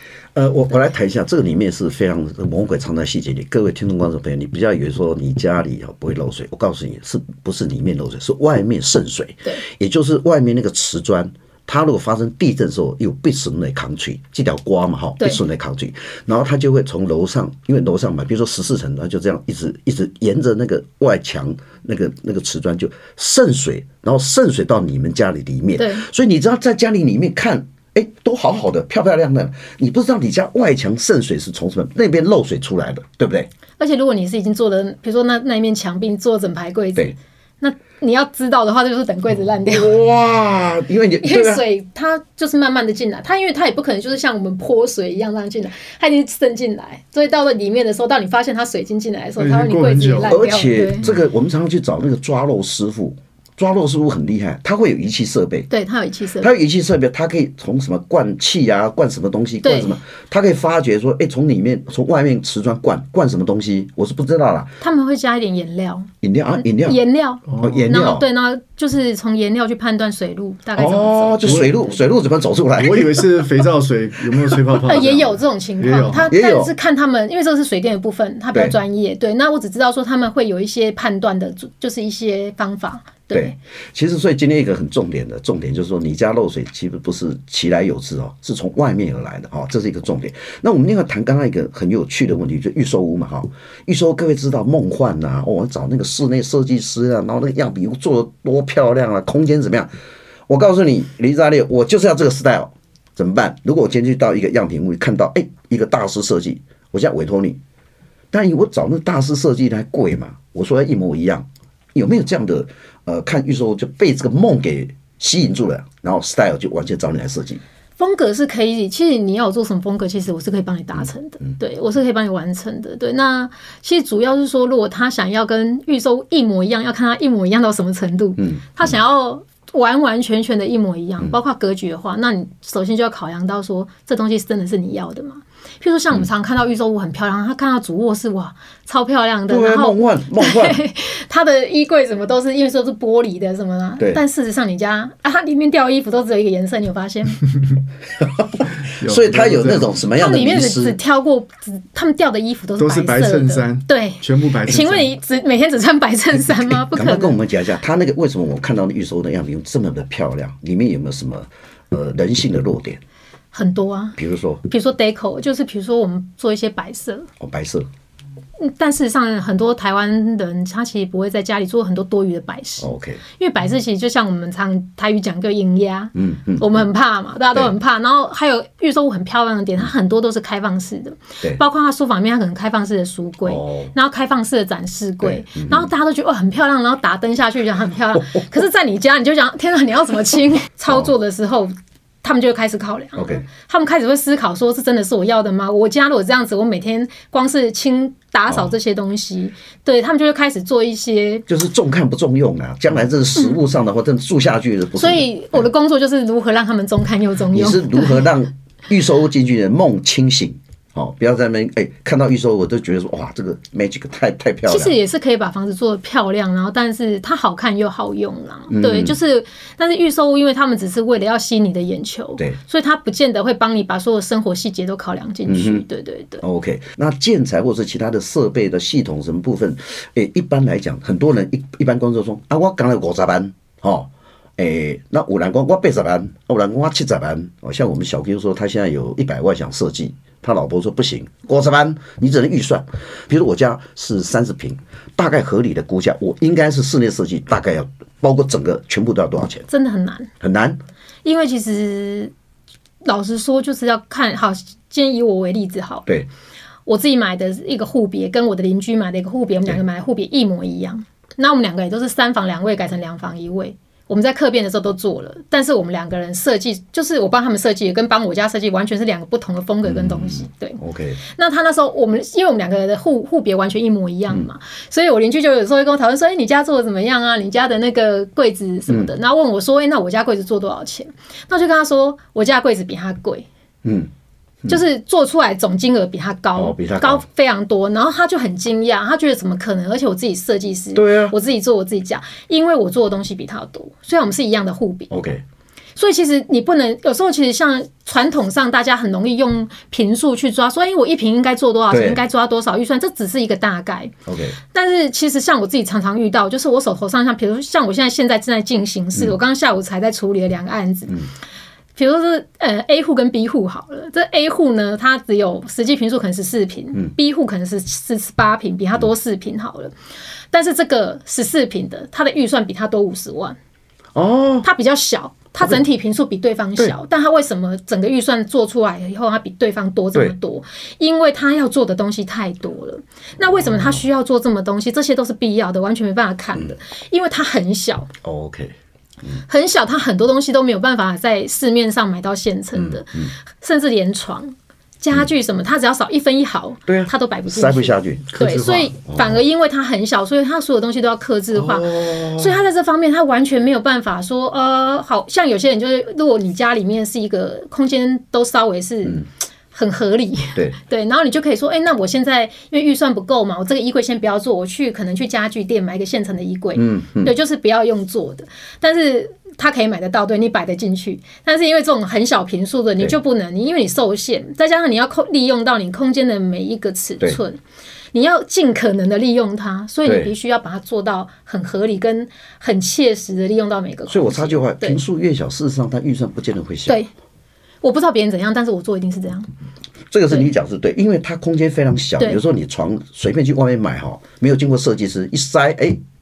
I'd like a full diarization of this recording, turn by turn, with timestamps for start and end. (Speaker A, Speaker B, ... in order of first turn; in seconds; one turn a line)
Speaker A: 0.3-33.5
Speaker B: 25.8-26.1
Speaker B: 33.8-40.0
Speaker A: 39.7-41.6
Speaker B: 41.2-51.1
Speaker C: 49.4-50.5
Speaker A: 50.3-55.7
Speaker B: 55.7-56.5
Speaker A: 56.4-64.8
Speaker B: 59.6-60.0
Speaker B: 64.8-71.7
Speaker A: 66.2-67.0
Speaker C: 67.5-67.9
Speaker A: 67.6-68.3
Speaker A: 70.8-73.4
Speaker C: 71.4-71.8
Speaker C: 72.8-76.3
Speaker B: 74.8-83.5
Speaker A: 76.3-76.7
Speaker A: 83.3-99.9
Speaker A: 100.5-107.6
Speaker A: 108.3-117.6
Speaker B: 118.0-147.4
Speaker A: 128.4-128.9
Speaker A: 139.5-140.8
Speaker A: 148.2-151.0
Speaker C: 148.9-149.9
Speaker B: 150.2-157.4
Speaker C: 152.8-155.1
Speaker A: 156.7-163.0
Speaker B: 163.5-167.3
Speaker A: 164.2-164.6
Speaker A: 167.4-167.9
Speaker B: 168.6-201.4
Speaker A: 172.8-173.2
Speaker A: 176.2-176.9
Speaker A: 183.4-183.9
Speaker A: 185.2-185.9
Speaker A: 193.2-193.4
Speaker A: 201.5-205.6
Speaker B: 205.0-208.2
Speaker A: 207.5-215.0
Speaker B: 214.7-226.4
Speaker A: 218.7-219.2
Speaker A: 225.5-225.9
Speaker A: 226.4-249.7
Speaker B: 249.7-250.3
Speaker A: 250.4-250.8
Speaker B: 251.2-252.3
Speaker B: 253.1-256.1
Speaker B: 256.9-283.5
Speaker A: 269.8-271.2
Speaker A: 283.8-284.1
Speaker B: 284.7-295.3
Speaker A: 286.6-287.2
Speaker A: 290.9-291.4
Speaker A: 295.1-295.4
Speaker B: 296.0-304.1
Speaker A: 301.9-302.2
Speaker A: 304.3-304.6
Speaker B: 304.7-311.2
Speaker B: 312.0-319.9
Speaker B: 320.5-323.6
Speaker A: 324.1-324.7
Speaker B: 324.6-338.1
Speaker A: 333.4-334.0
Speaker A: 338.2-339.4
Speaker B: 339.5-377.6
Speaker A: 342.8-343.3
Speaker A: 346.9-348.6
Speaker C: 348.4-348.9
Speaker A: 349.1-349.4
Speaker A: 351.5-352.6
Speaker A: 366.8-367.3
Speaker B: 378.1-385.0
Speaker A: 380.1-380.3
Speaker A: 384.1-387.0
Speaker B: 387.8-389.5
Speaker A: 390.1-396.0